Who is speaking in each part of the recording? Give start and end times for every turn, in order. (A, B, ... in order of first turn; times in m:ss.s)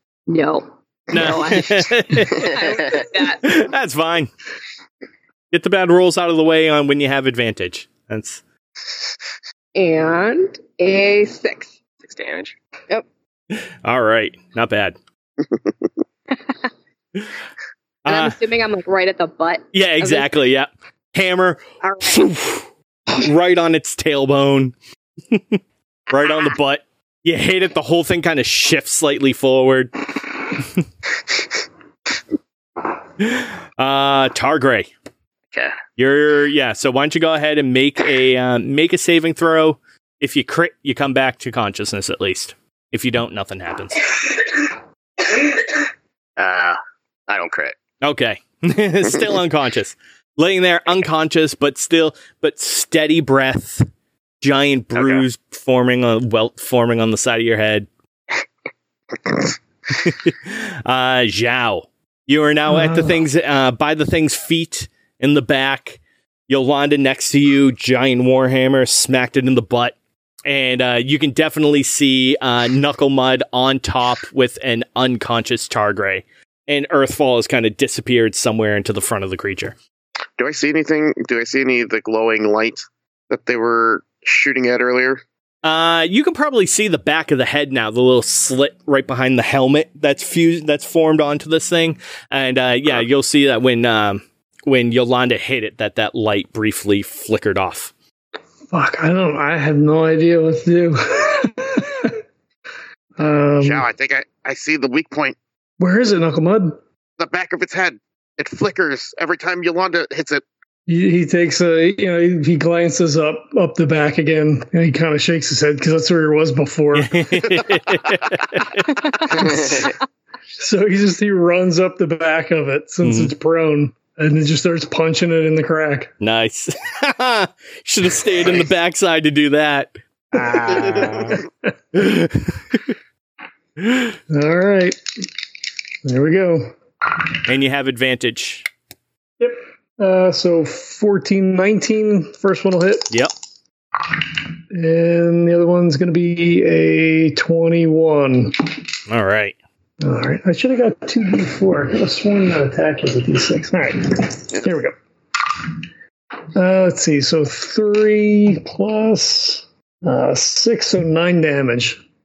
0:00.3-0:03.6 A
0:01.1-0:02.5 B
0:02.4-0:03.0 C
0:03.4-0:04.3 B
0:05.5-0:08.4 B
0:09.7-0:11.7 A
0:12.0-0:12.5 C
0:13.5-0:15.0 B
0:16.3-0:16.6 A
0:18.0-0:18.3 B
0:18.0-0:20.3 A
0:19.7-0:24.7 B
0:21.8-0:22.3 A
0:25.3-0:25.6 B
0:26.1-0:30.0 B
0:33.2-0:34.9 B
0:36.0-0:44.1 B
0:46.4-0:47.7 C
0:48.0-0:53.8 B
0:54.4-0:57.9 B
0:55.0-0:55.2 C
0:59.9-1:09.9 B
1:02.7-1:03.2 D
1:10.4-1:19.7 B
1:20.4-1:25.2 E
1:25.6-1:37.9 B
1:38.7-1:42.2 D
1:43.2-1:43.9 D
1:43.6-1:45.4 E
1:45.8-1:46.8 D
1:47.2-1:50.4 E
1:50.9-1:57.6 D
1:56.9-1:59.6 B
1:58.9-1:59.9 D
2:00.6-2:06.1 D
2:03.0-2:03.3 B
2:06.2-2:11.4 B
2:10.3-2:12.0 D
2:11.9-2:12.8 B
2:14.3-2:15.0 D
2:16.0-2:17.3 D
2:17.4-2:18.6 B
2:19.4-2:23.1 D
2:24.0-2:28.6 D
2:29.1-2:29.6 B
2:30.0-2:35.8 D
2:36.5-2:42.0 D